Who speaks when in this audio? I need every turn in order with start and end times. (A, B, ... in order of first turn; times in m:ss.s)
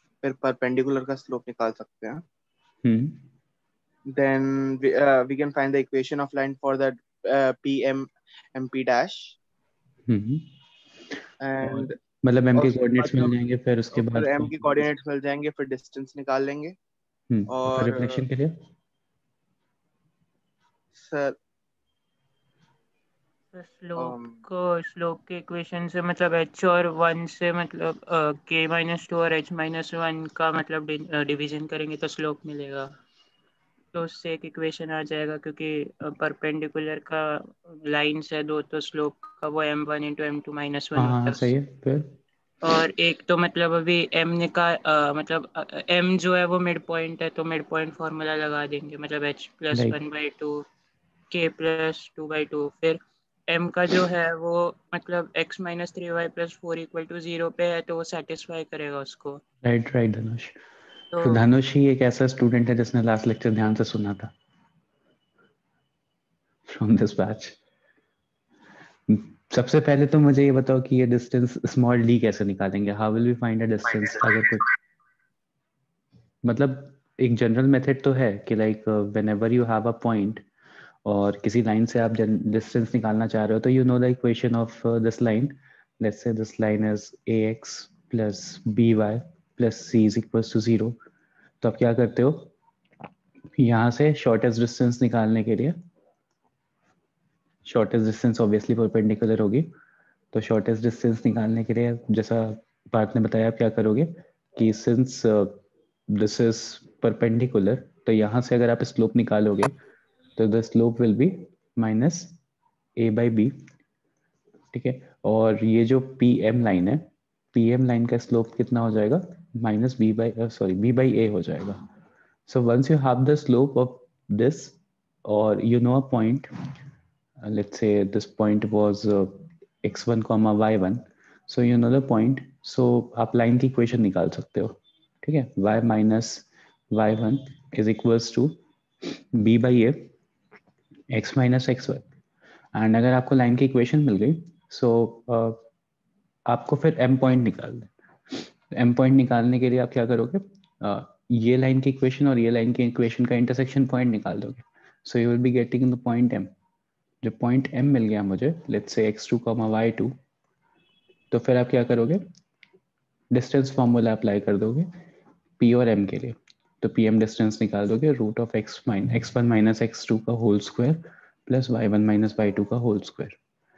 0:00.2-0:02.2 A
0:02.8-0:03.2 B
0:04.1-0:09.4 A
0:10.1-0:10.5 B
0:11.4-0:11.9 A
0:11.7-0:14.9 B
0:12.6-0:13.4 A
0:13.9-0:16.8 A
0:17.3-0:18.6 B
0:17.5-0:18.2 A
0:20.9-0:21.4 A
0:23.5-0:33.0 C
0:24.0-0:24.4 A
0:33.9-0:41.5 C
0:41.0-0:42.2 B
0:42.6-0:50.6 C
0:49.7-0:50.0 B
0:51.3-0:59.4 C
0:59.6-1:00.6 B
1:01.1-1:01.4 C
1:01.2-1:04.3 B
1:06.7-1:07.6 B
1:09.1-1:14.7 B
1:16.4-1:20.4 B
1:21.0-1:31.0 B
1:31.6-1:32.5 B
1:33.6-1:35.8 B
1:37.7-1:39.7 B
1:40.3-1:49.7 B
1:50.4-1:52.4 B
1:53.0-1:53.6 B
1:54.7-2:01.8 B
2:02.5-2:06.5 B
2:07.4-2:20.1 B
2:21.1-2:22.0 B
2:22.7-2:25.6 B
2:26.5-2:36.5 B
2:37.2-2:40.2 B
2:41.3-2:42.2 B
2:43.3-2:44.9 B
2:45.6-2:53.4 B